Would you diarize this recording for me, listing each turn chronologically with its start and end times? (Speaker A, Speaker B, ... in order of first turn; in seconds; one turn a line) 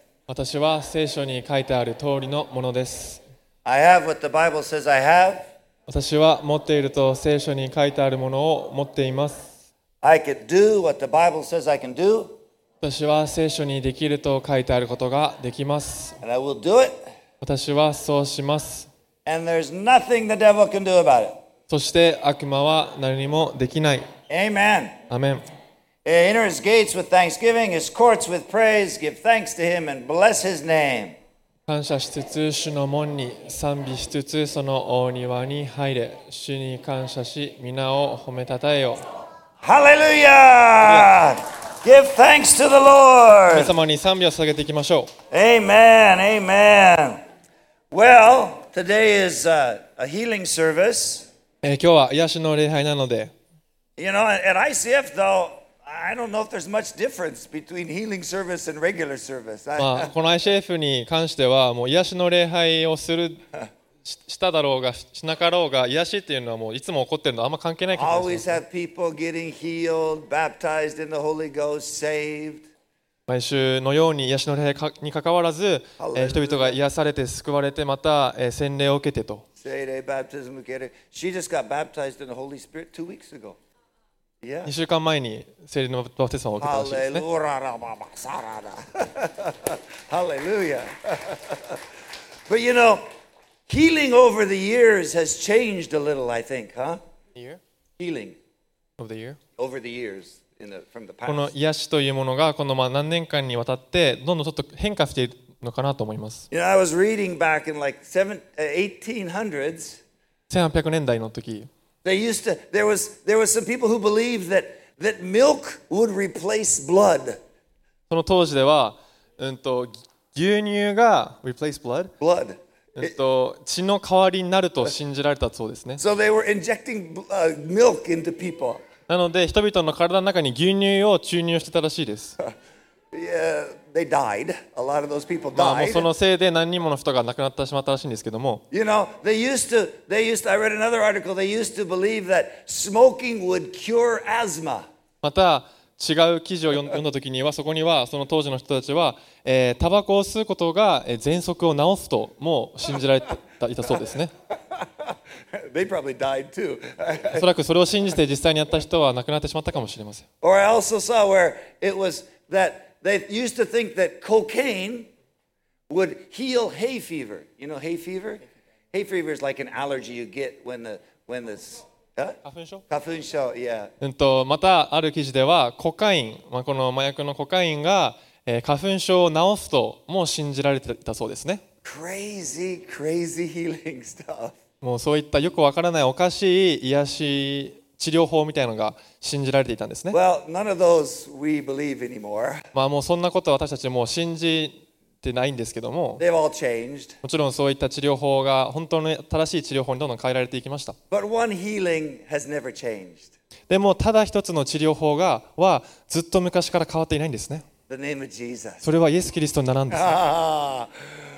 Speaker A: 0.3-3.2
Speaker B: 3.6-5.4
Speaker A: 5.9-9.5
Speaker B: 10.0-12.3
Speaker A: 12.8-16.2
Speaker B: 16.2-17.0
Speaker A: 17.4-18.9
Speaker B: 19.3-21.4
Speaker A: 21.7-24.1
Speaker B: 24.3-25.0
Speaker A: 25.1-25.4
Speaker B: 26.1-31.2
Speaker A: 31.7-39.0
Speaker B: 39.6-43.7
Speaker A: 40.8-41.1
Speaker A: 43.5-45.1
Speaker B: 45.3-47.2
Speaker B: 47.9-51.3
Speaker A: 51.6-53.3
Speaker B: 54.0-60.1
Speaker A: 59.8-63.4
Speaker A: 64.0-68.6
Speaker B: 68.0-72.7
Speaker A: 73.3-79.5
Speaker B: 76.0-76.8
Speaker B: 79.6-83.6
Speaker B: 84.4-84.7
Speaker A: 84.7-87.3
Speaker B: 86.6-91.6
Speaker B: 92.5-93.0
Speaker B: 93.7-97.0
Speaker A: 97.3-97.6
Speaker B: 98.0-98.4
Speaker A: 99.0-99.4
Speaker B: 99.6-101.5
Speaker A: 101.3-106.5
Speaker B: 106.5-110.0
Speaker A: 110.5-111.7
Speaker B: 112.0-117.4
Speaker A: 118.1-122.1
Speaker B: 122.2-123.1
Speaker A: 123.0-126.0
Speaker B: 126.0-128.8
Speaker A: 129.1-132.4
Speaker B: 133.1-136.1
Speaker A: 135.5-138.6
Speaker B: 138.7-144.9
Speaker A: 145.2-154.3
Speaker B: 155.1-157.4
Speaker A: 157.3-160.2
Speaker B: 160.4-165.1
Speaker B: 165.9-172.4
Speaker A: 172.4-172.8
Speaker B: 172.9-173.9
Speaker A: 174.0-181.6
Speaker B: 181.8-184.6
Speaker A: 184.8-190.2
Speaker B: 190.1-192.7
Speaker A: 192.7-196.2
Speaker B: 196.2-197.2
Speaker A: 197.2-201.0
Speaker B: 201.1-203.3
Speaker A: 203.7-207.7
Speaker B: 207.9-208.8
Speaker A: 208.8-210.2
Speaker B: 209.9-210.9